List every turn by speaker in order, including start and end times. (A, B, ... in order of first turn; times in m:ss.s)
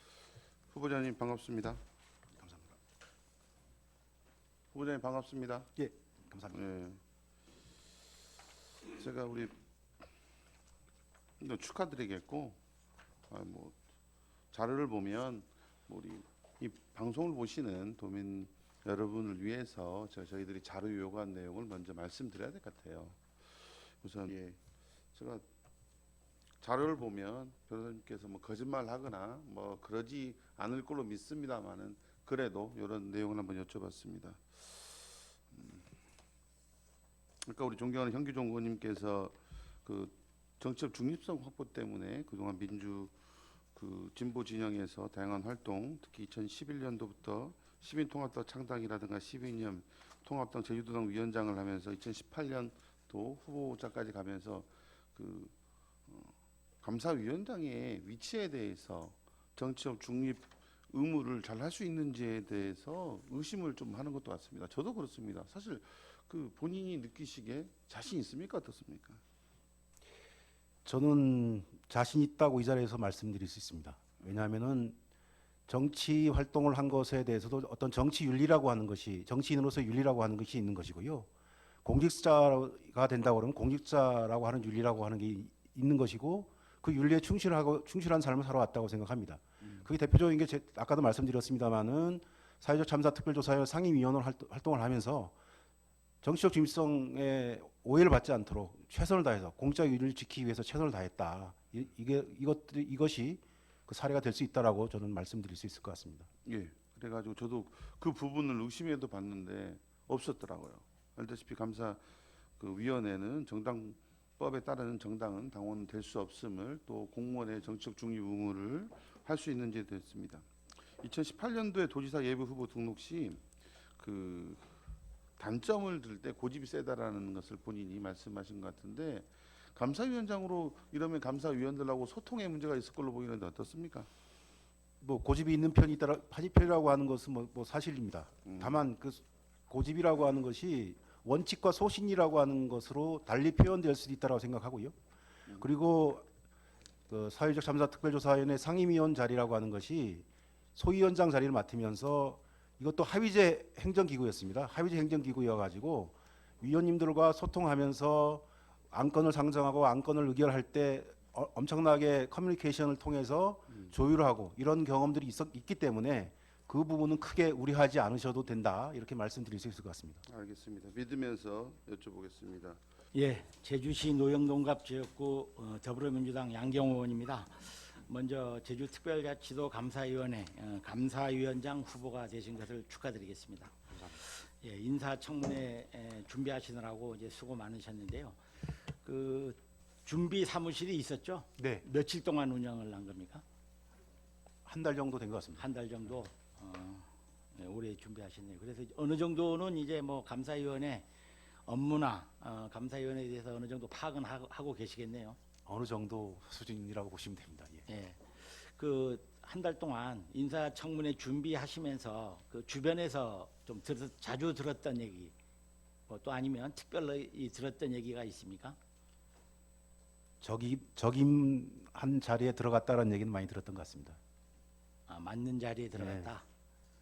0:00.7-0:01.8 A
0:02.4-0:02.8 B
0:04.7-0:05.7 A
0:05.8-0:06.6 B
0:06.5-0:07.0 A
0:08.9-0:09.5 A
0:11.4-0:12.6 A
0:13.3-0:13.8 A
0:14.5-0:23.2 A
0:24.0-0:24.6 A
0:25.1-0:25.4 A
0:26.6-0:34.7 A
0:35.5-0:35.9 A
0:37.4-0:43.1 A
0:43.8-0:55.5 A
0:56.1-1:09.2 A
1:10.8-1:15.0 B
1:15.7-1:21.3 B
1:21.8-1:35.4 B
1:36.2-1:46.3 B
1:46.4-1:52.0 A
1:52.6-2:00.5 A
2:01.0-2:03.4 A
2:04.0-2:04.7 A
2:05.4-2:14.1 A
2:15.0-2:25.0 B
2:18.4-2:18.8 A
2:25.6-2:26.3 B
2:27.1-2:50.2 B
2:50.3-2:52.8 A
2:53.1-3:13.4 C
3:03.9-3:04.2 B
3:11.6-3:11.8 B
3:14.7-3:15.6 B
3:15.6-3:21.1 C
3:21.7-3:25.4 C
3:25.7-3:27.8 B
3:27.9-3:35.3 C
3:36.1-3:38.8 C
3:40.4-3:44.2 B
3:45.1-3:46.4 C
3:46.0-3:46.3 B